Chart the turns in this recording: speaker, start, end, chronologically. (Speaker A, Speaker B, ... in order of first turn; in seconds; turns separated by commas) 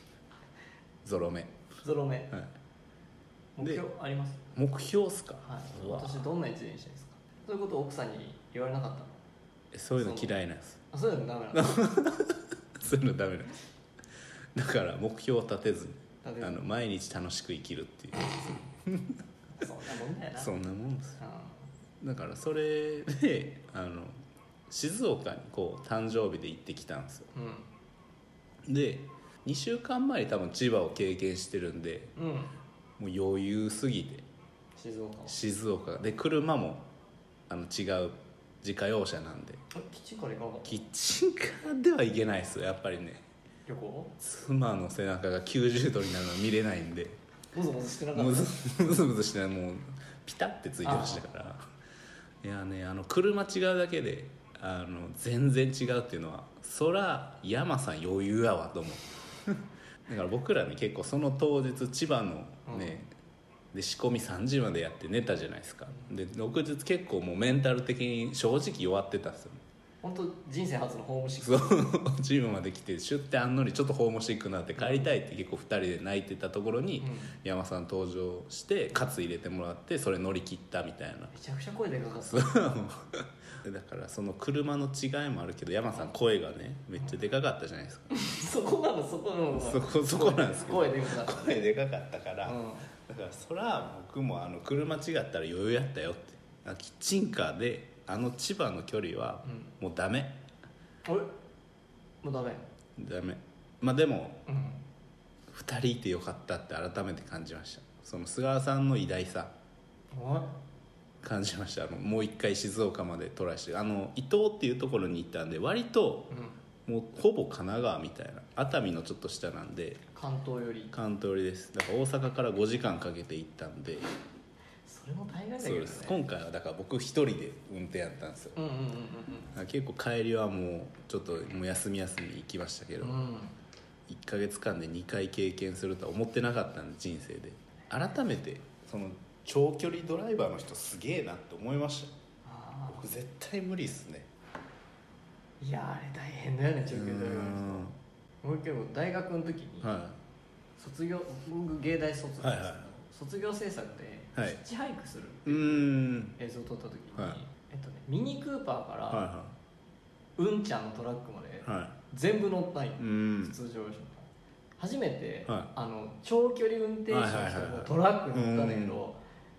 Speaker A: 1.0-1.6, Speaker B: 1.8-2.3, Speaker B: 3.5-4.5, Speaker A: 4.5-6.2, Speaker B: 5.4-9.2, Speaker A: 9.7-10.8, Speaker B: 10.0-10.3, Speaker B: 10.9-11.8, Speaker A: 11.5-13.6, Speaker A: 14.5-19.2, Speaker B: 16.2-16.6, Speaker B: 19.6-20.5, Speaker A: 20.4-21.2, Speaker B: 21.2-21.6, Speaker A: 22.0-24.2, Speaker A: 24.7-27.3, Speaker B: 27.3-27.7, Speaker A: 28.6-32.1, Speaker B: 32.1-32.5, Speaker A: 33.0-34.2, Speaker B: 34.8-35.4, Speaker A: 35.3-36.9, Speaker A: 37.5-39.6, Speaker B: 39.7-40.8, Speaker A: 40.6-43.2, Speaker B: 43.7-44.1, Speaker A: 44.2-47.2, Speaker B: 47.5-48.6, Speaker A: 48.1-51.7, Speaker B: 50.8-51.3, Speaker A: 52.4-63.1, Speaker B: 62.7-63.0, Speaker A: 63.7-69.6, Speaker B: 70.0-71.9, Speaker A: 71.4-81.3, Speaker B: 74.8-75.1, Speaker B: 77.0-77.4, Speaker B: 81.3-82.7, Speaker A: 82.2-88.1, Speaker B: 88.1-91.6, Speaker A: 89.5-100.4, Speaker B: 92.4-92.9, Speaker B: 99.4-99.7, Speaker B: 101.0-101.3, Speaker B: 102.2-102.7, Speaker A: 103.0-104.4, Speaker B: 104.5-104.8, Speaker A: 105.5-109.5, Speaker B: 110.1-110.5, Speaker A: 111.2-116.3, Speaker B: 116.3-116.6, Speaker A: 116.8-120.0, Speaker B: 120.1-120.9, Speaker A: 120.9-124.1, Speaker B: 124.8-126.2, Speaker A: 125.6-128.6, Speaker B: 128.6-129.5, Speaker A: 129.5-133.2, Speaker B: 133.0-133.6, Speaker A: 134.1-142.1, Speaker B: 142.4-143.0, Speaker A: 142.9-144.3, Speaker B: 145.6-147.9, Speaker A: 146.8-147.9, Speaker B: 148.4-149.9, Speaker A: 149.8-150.2, Speaker B: 150.8-159.3, Speaker A: 152.4-152.9, Speaker A: 155.4-156.3, Speaker A: 159.1-159.6, Speaker B: 160.4-169.2, Speaker A: 161.6-161.9, Speaker A: 163.0-163.6, Speaker A: 167.1-169.0